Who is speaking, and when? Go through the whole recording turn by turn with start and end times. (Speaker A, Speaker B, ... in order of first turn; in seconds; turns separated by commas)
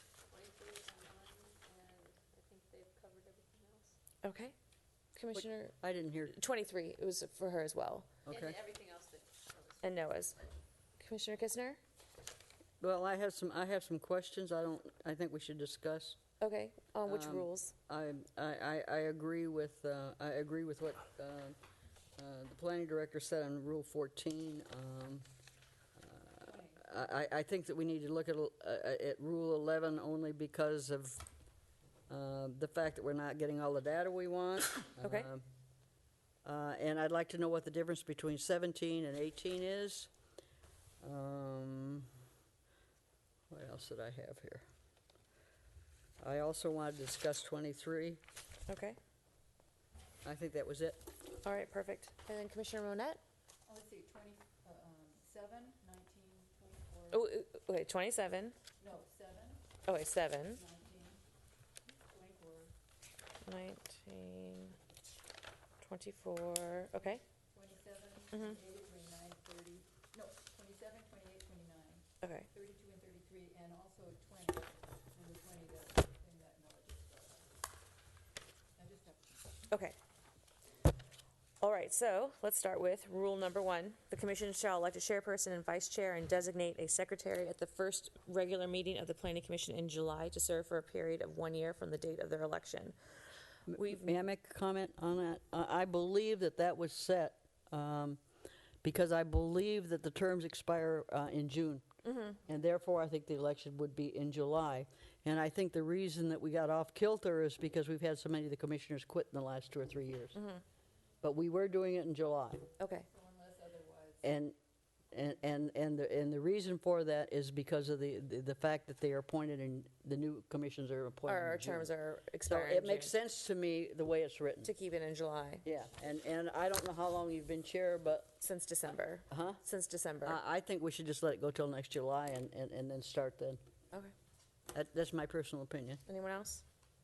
Speaker A: 0.3-3.9, Speaker B: 4.2-4.5, Speaker B: 5.1-5.7, Speaker C: 5.3-6.3, Speaker B: 6.3-8.1, Speaker C: 8.2-8.6, Speaker A: 8.5-9.8, Speaker B: 9.8-10.4, Speaker B: 11.0-11.8, Speaker C: 12.8-16.2, Speaker B: 16.4-17.7, Speaker C: 17.0-21.6, Speaker C: 22.2-25.2, Speaker C: 26.0-31.2, Speaker C: 32.1-35.4, Speaker B: 35.0-35.3, Speaker C: 36.4-40.1, Speaker C: 41.0-42.1, Speaker C: 43.5-44.6, Speaker C: 46.2-48.2, Speaker B: 48.7-49.0, Speaker C: 50.2-51.1, Speaker B: 51.4-53.2, Speaker D: 53.7-57.2, Speaker B: 57.1-58.5, Speaker D: 58.8-59.6, Speaker B: 59.9-60.6, Speaker D: 60.5-61.2, Speaker D: 61.9-62.7, Speaker B: 63.4-64.8, Speaker B: 65.8-67.2, Speaker D: 67.5-77.5, Speaker B: 68.3-68.6, Speaker B: 72.2-72.5, Speaker D: 78.8-79.2, Speaker B: 79.7-80.0, Speaker B: 81.6-92.9, Speaker C: 93.7-98.2, Speaker B: 93.7-94.1, Speaker C: 98.8-101.8, Speaker B: 102.0-102.4, Speaker C: 102.4-110.3, Speaker B: 110.3-110.6, Speaker C: 111.2-112.7, Speaker B: 112.8-113.0, Speaker D: 113.1-114.2, Speaker C: 114.2-114.5, Speaker C: 115.1-121.9, Speaker B: 121.2-123.1, Speaker C: 122.4-124.7, Speaker B: 124.6-125.6, Speaker C: 125.6-128.3, Speaker B: 128.4-130.4, Speaker C: 129.3-129.6, Speaker C: 130.2-133.6, Speaker C: 134.7-136.0, Speaker B: 136.1-136.6